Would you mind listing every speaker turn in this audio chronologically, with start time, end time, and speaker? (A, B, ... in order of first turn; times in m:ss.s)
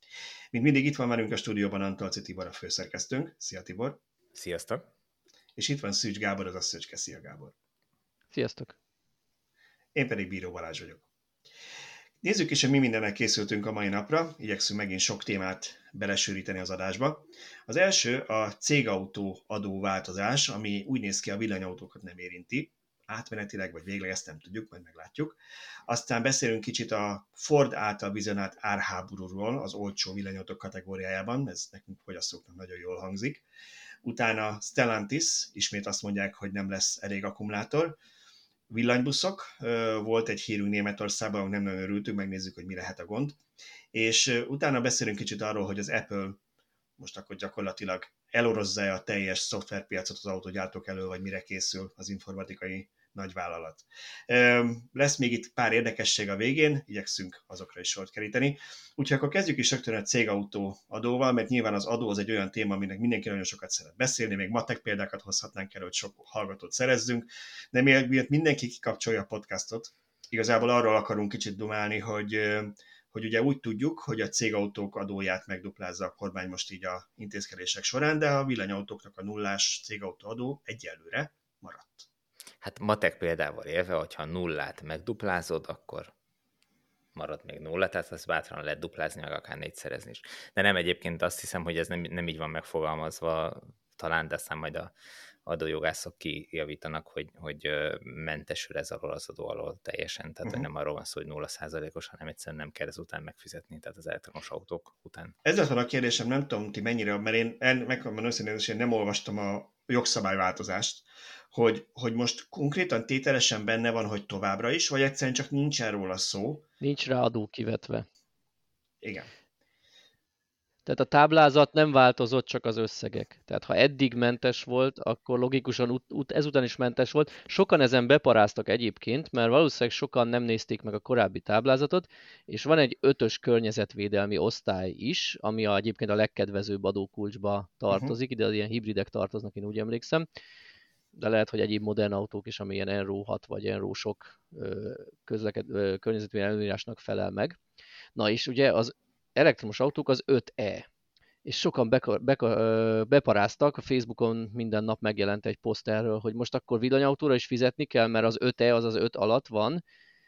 0:00.5-0:04.0 A
0:04.3-0:04.8 B
0:05.6-0:07.5 A
0:08.3-0:08.7 C
0:09.9-0:11.0 A
0:12.2-0:33.4 A
0:34.0-0:38.0 A
0:38.7-0:43.4 A
0:43.9-0:46.4 A
0:47.0-1:22.1 A
1:22.6-1:26.1 B
1:27.1-1:34.9 B
1:35.4-1:45.4 B
1:45.4-1:56.6 A
1:56.8-1:58.0 C
1:59.0-1:59.3 A
2:00.8-2:20.2 C
2:17.9-2:18.2 A
2:21.1-2:27.6 C
2:28.2-2:30.8 C
2:31.4-2:39.8 C